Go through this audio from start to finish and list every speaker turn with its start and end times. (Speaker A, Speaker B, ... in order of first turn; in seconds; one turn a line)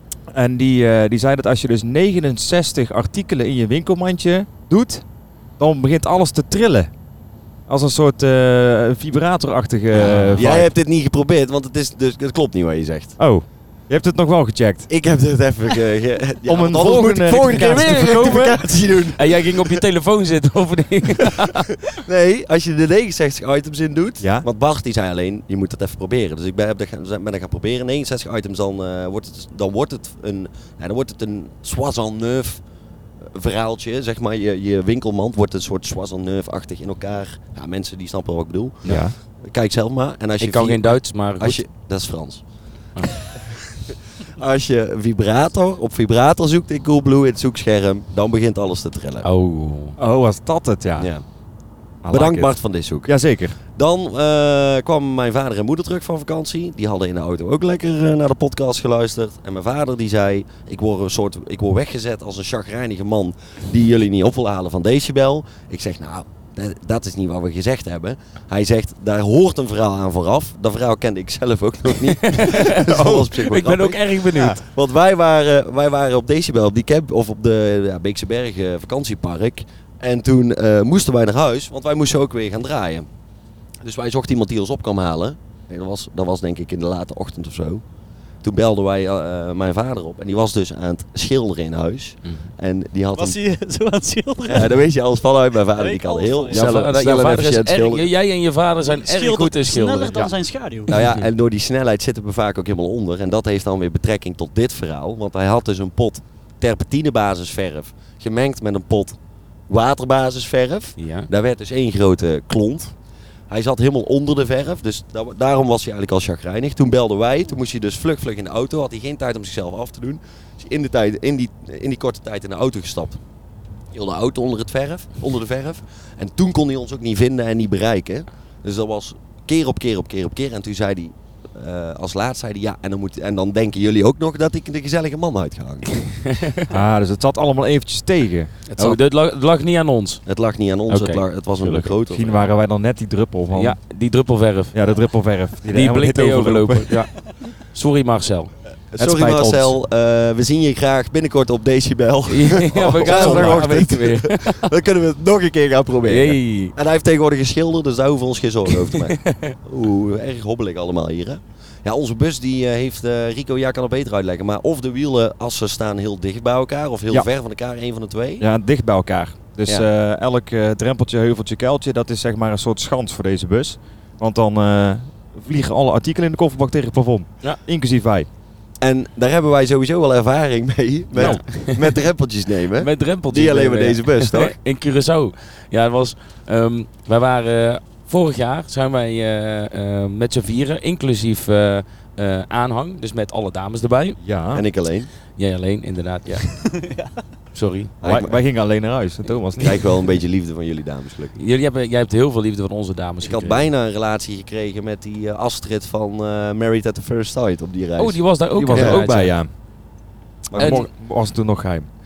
Speaker A: 0.3-5.0
Speaker A: 5.6-6.9
Speaker A: 7.7-10.7
Speaker B: 9.9-13.2
Speaker C: 10.0-10.5
Speaker A: 13.2-14.9
Speaker B: 14.9-19.8
Speaker A: 16.5-18.6
Speaker C: 19.2-21.7
Speaker B: 21.8-32.6
Speaker A: 24.2-24.5
Speaker B: 33.3-42.4
Speaker A: 38.9-39.1
Speaker C: 40.4-41.6
Speaker B: 43.1-49.3
Speaker C: 49.2-50.0
Speaker A: 50.0-51.1
Speaker B: 51.0-51.2
Speaker A: 52.0-52.5
Speaker B: 52.1-53.2
Speaker A: 53.0-53.6
Speaker B: 53.7-83.1
Speaker C: 72.2-74.6
Speaker A: 72.9-73.2
Speaker B: 83.8-87.8
Speaker B: 88.4-93.4
Speaker D: 93.2-94.8
Speaker B: 94.5-98.1
Speaker D: 95.8-96.7
Speaker C: 96.5-100.3
Speaker D: 98.8-101.0
Speaker C: 100.9-101.2
Speaker B: 100.9-109.2
Speaker B: 109.7-112.9
Speaker C: 111.0-111.3
Speaker B: 113.5-123.2
Speaker B: 123.9-136.1
Speaker C: 136.1-136.7
Speaker A: 136.7-139.0
Speaker C: 138.7-140.2
Speaker B: 140.3-142.4
Speaker C: 140.9-141.9
Speaker A: 142.1-143.8
Speaker C: 143.5-144.8
Speaker A: 144.7-147.1
Speaker C: 145.7-148.5
Speaker B: 148.9-168.5
Speaker A: 149.0-149.8
Speaker C: 152.3-154.7
Speaker A: 152.9-153.9
Speaker C: 156.1-156.8
Speaker C: 158.8-159.6
Speaker A: 168.4-178.3
Speaker B: 178.8-184.6
Speaker A: 181.2-181.4
Speaker C: 181.2-182.0
Speaker C: 182.8-194.2
Speaker A: 194.2-194.6
Speaker B: 194.5-195.1
Speaker C: 195.3-196.6
Speaker D: 196.7-197.1
Speaker C: 197.5-197.9
Speaker B: 198.0-198.4
Speaker A: 198.0-199.8
Speaker B: 199.6-201.4
Speaker C: 201.4-203.7
Speaker B: 203.2-209.1
Speaker C: 208.0-209.3
Speaker A: 208.6-209.5
Speaker B: 210.5-210.8
Speaker A: 210.5-211.9
Speaker C: 210.6-210.9